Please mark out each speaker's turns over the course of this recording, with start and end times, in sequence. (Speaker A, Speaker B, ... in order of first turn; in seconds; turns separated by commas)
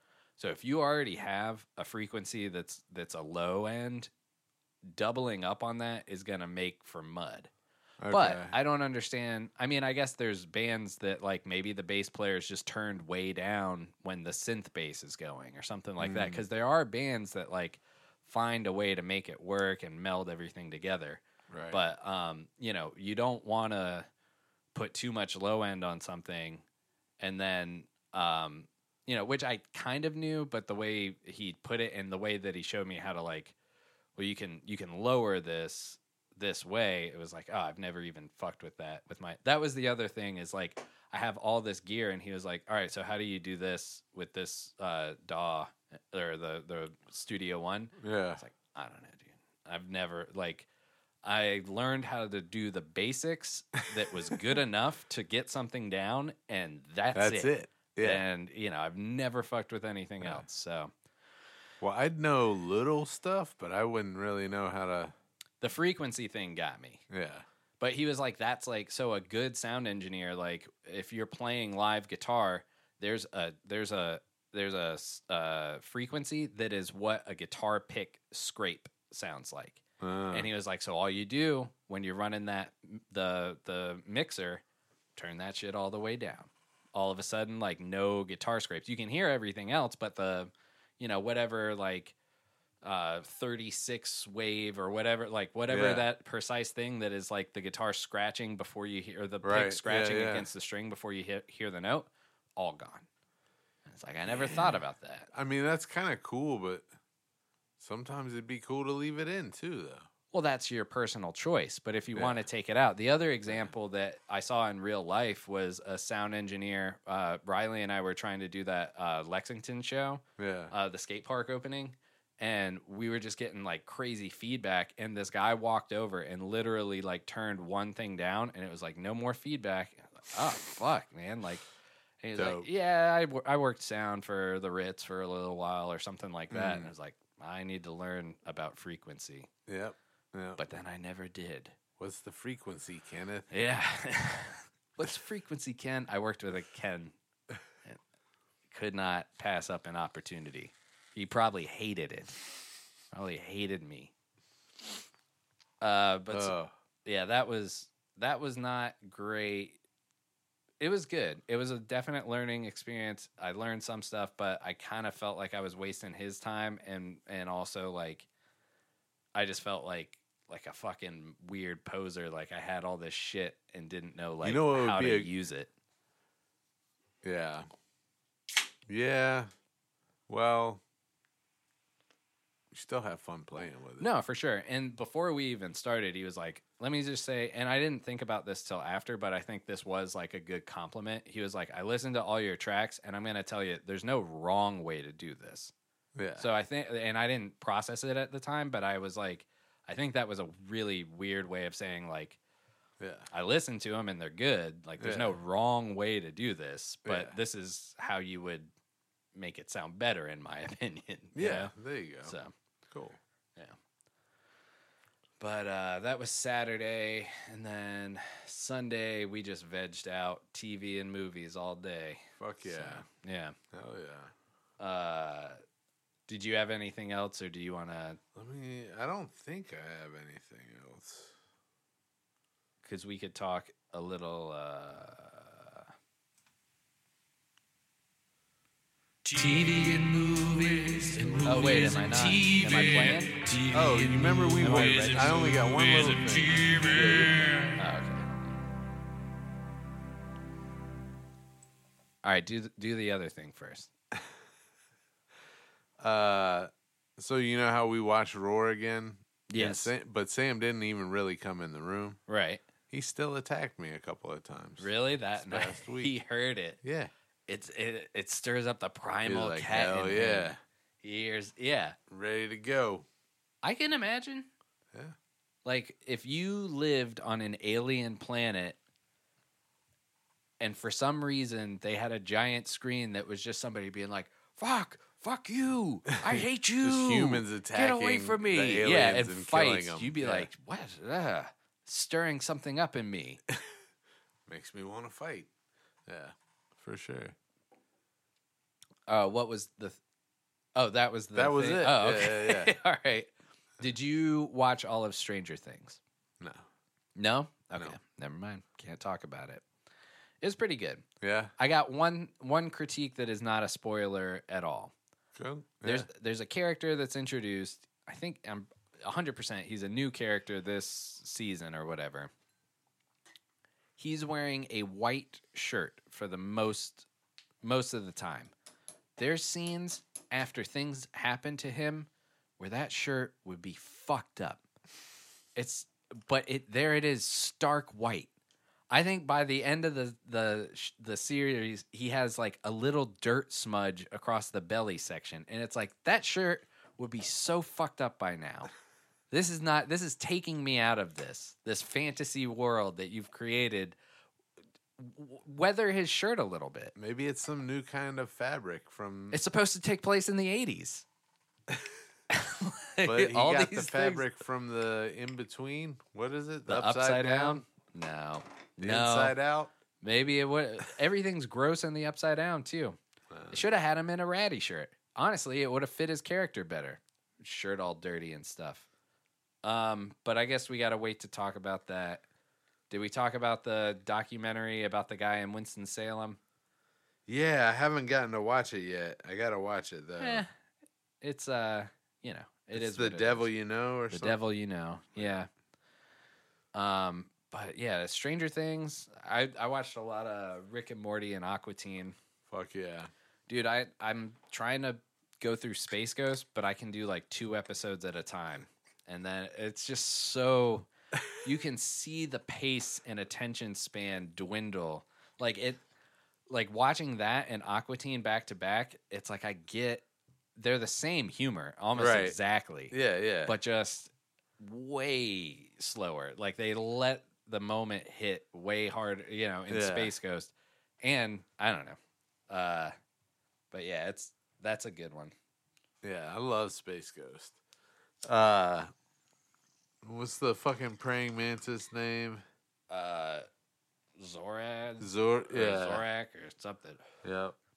Speaker A: 0.4-4.1, Speaker A: 4.9-7.5, Speaker B: 8.0-8.6, Speaker A: 8.1-24.1, Speaker B: 16.0-16.4, Speaker B: 21.5-21.8, Speaker A: 24.7-26.6, Speaker A: 27.2-33.5, Speaker A: 34.2-50.7, Speaker B: 48.0-48.4, Speaker A: 51.2-60.9, Speaker B: 57.1-58.2, Speaker B: 61.8-65.1, Speaker A: 65.6-67.0, Speaker B: 67.1-67.5, Speaker A: 67.8-84.6, Speaker B: 80.0-80.5, Speaker A: 85.2-92.2, Speaker A: 92.8-103.1, Speaker B: 95.7-96.1, Speaker B: 99.4-100.5, Speaker A: 103.9-105.3, Speaker B: 104.3-104.8, Speaker B: 105.3-106.9, Speaker B: 107.8-110.1, Speaker A: 110.3-131.7, Speaker B: 112.1-112.4, Speaker B: 113.5-113.7, Speaker B: 120.4-120.7, Speaker A: 132.2-139.5, Speaker B: 132.3-132.7, Speaker B: 136.5-136.9, Speaker B: 139.7-140.6, Speaker A: 140.6-141.8, Speaker B: 142.0-143.5, Speaker A: 143.5-147.2, Speaker A: 148.7-152.4, Speaker A: 153.1-154.1, Speaker A: 155.8-159.8, Speaker B: 156.3-156.7, Speaker A: 160.8-168.3, Speaker A: 169.3-175.7, Speaker B: 174.4-175.3, Speaker B: 177.2-177.7, Speaker B: 178.9-179.5, Speaker B: 180.3-180.8, Speaker B: 182.7-184.1, Speaker A: 184.0-195.7, Speaker B: 196.2-196.5, Speaker A: 196.4-202.4, Speaker B: 203.0-203.3, Speaker A: 203.3-208.7, Speaker B: 205.0-205.3, Speaker B: 207.1-207.4, Speaker A: 209.3-211.7, Speaker B: 211.3-212.4, Speaker A: 212.2-212.5, Speaker B: 212.9-213.2, Speaker A: 215.4-223.6, Speaker B: 222.4-223.1, Speaker B: 223.7-224.3, Speaker A: 224.8-225.6, Speaker A: 226.3-228.2, Speaker B: 228.3-231.3, Speaker A: 232.8-235.9, Speaker C: 239.3-241.4, Speaker B: 239.4-239.8, Speaker B: 241.4-241.9, Speaker A: 241.4-243.4, Speaker B: 242.8-243.1, Speaker C: 243.5-244.1, Speaker B: 243.7-247.7, Speaker A: 244.6-245.5, Speaker A: 247.7-248.4, Speaker A: 252.2-253.9, Speaker B: 256.0-262.2, Speaker A: 259.5-259.9, Speaker A: 262.3-262.6, Speaker B: 262.9-266.1, Speaker A: 264.8-266.8, Speaker B: 266.8-267.1, Speaker A: 267.5-272.0, Speaker B: 269.2-270.6, Speaker B: 272.1-273.1, Speaker A: 273.6-274.5, Speaker A: 275.6-278.8, Speaker A: 280.6-293.4, Speaker B: 286.3-290.5, Speaker B: 294.5-295.5, Speaker B: 296.1-297.4, Speaker A: 299.1-300.0, Speaker A: 300.8-306.0, Speaker B: 301.3-302.8, Speaker B: 306.4-306.6, Speaker A: 307.2-309.6, Speaker A: 310.4-311.1, Speaker B: 311.2-311.5, Speaker A: 311.6-314.9, Speaker B: 315.4-316.1, Speaker A: 315.8-322.3, Speaker A: 324.0-327.1, Speaker A: 327.6-328.5, Speaker A: 329.2-334.6, Speaker A: 335.6-338.3, Speaker A: 338.9-348.7, Speaker A: 349.3-354.0, Speaker A: 355.0-356.9, Speaker B: 357.0-359.4, Speaker A: 359.3-361.1, Speaker A: 362.3-364.3, Speaker B: 363.0-367.6, Speaker A: 366.7-369.4, Speaker B: 368.8-369.7, Speaker A: 370.0-373.0, Speaker B: 373.3-373.6, Speaker A: 373.5-378.9, Speaker A: 379.6-382.2, Speaker A: 382.9-386.4, Speaker B: 387.3-390.5, Speaker A: 390.2-390.5, Speaker A: 391.2-393.5, Speaker B: 392.7-394.4, Speaker A: 394.1-395.5, Speaker A: 396.7-402.2, Speaker B: 402.5-403.1, Speaker A: 403.5-415.8, Speaker A: 416.5-420.1, Speaker A: 420.6-432.0, Speaker B: 421.9-422.4, Speaker B: 422.9-423.6, Speaker B: 429.7-430.1, Speaker A: 432.5-432.9, Speaker A: 433.7-435.3, Speaker B: 436.0-437.6, Speaker B: 438.2-438.9, Speaker B: 440.0-442.4, Speaker A: 442.9-443.5, Speaker A: 444.2-447.0, Speaker B: 445.0-446.1, Speaker B: 447.2-447.6